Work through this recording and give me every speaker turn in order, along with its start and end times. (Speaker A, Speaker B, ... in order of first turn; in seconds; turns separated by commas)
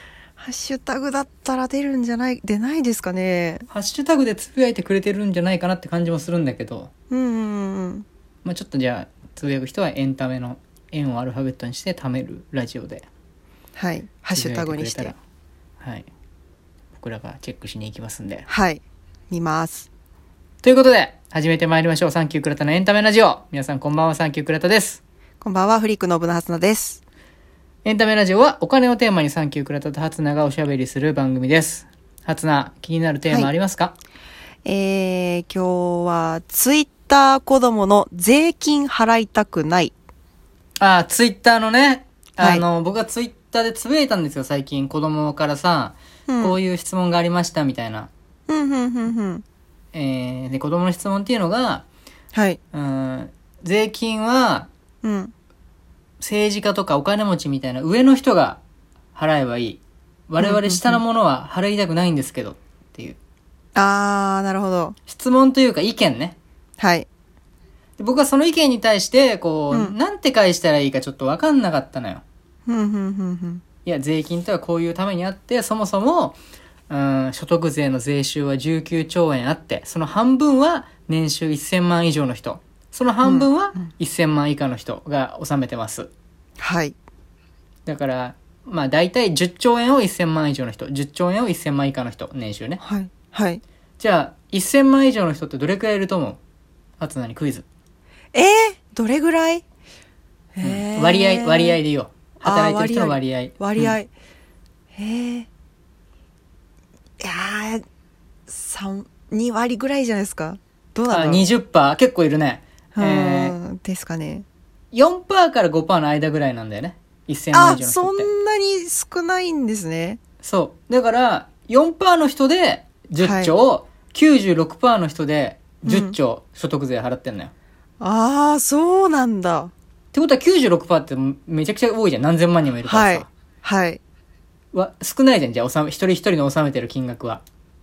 Speaker A: 0.4-3.7, Speaker B: 3.7-6.9, Speaker A: 7.1-8.1, Speaker B: 8.4-13.1, Speaker A: 13.8-15.1, Speaker B: 14.3-15.2, Speaker B: 15.8-16.1, Speaker B: 17.0-18.4, Speaker A: 18.5-19.9, Speaker B: 20.6-25.0, Speaker A: 25.4-27.0, Speaker B: 27.8-33.9, Speaker A: 34.6-39.9, Speaker B: 40.8-48.1, Speaker A: 42.4-42.6, Speaker A: 46.3-46.6, Speaker A: 48.5-49.4, Speaker B: 49.9-51.9, Speaker A: 52.3-52.6, Speaker B: 52.7-54.7, Speaker A: 55.0-55.3, Speaker B: 56.2-58.6, Speaker B: 59.1-63.2, Speaker A: 60.4-61.0, Speaker A: 63.8-65.0, Speaker B: 65.1-66.4, Speaker A: 66.8-67.1, Speaker B: 68.0-72.2, Speaker A: 72.7-73.6, Speaker B: 73.8-76.4, Speaker B: 76.9-86.1, Speaker A: 83.2-83.8, Speaker A: 86.6-87.0, Speaker B: 87.8-92.8, Speaker A: 92.8-93.6, Speaker B: 94.0-96.4, Speaker B: 97.0-97.6, Speaker A: 98.3-99.6, Speaker A: 100.5-101.8, Speaker B: 100.6-104.0, Speaker A: 102.4-104.1, Speaker A: 104.9-105.5, Speaker A: 107.2-107.8, Speaker A: 108.5-111.5, Speaker B: 111.1-113.5, Speaker A: 112.9-114.5, Speaker B: 114.9-118.3, Speaker A: 117.5-120.2, Speaker B: 120.4-127.5, Speaker A: 123.2-123.5, Speaker A: 125.8-126.2, Speaker A: 128.0-129.7, Speaker B: 130.1-133.3, Speaker A: 132.8-134.0, Speaker B: 134.7-137.4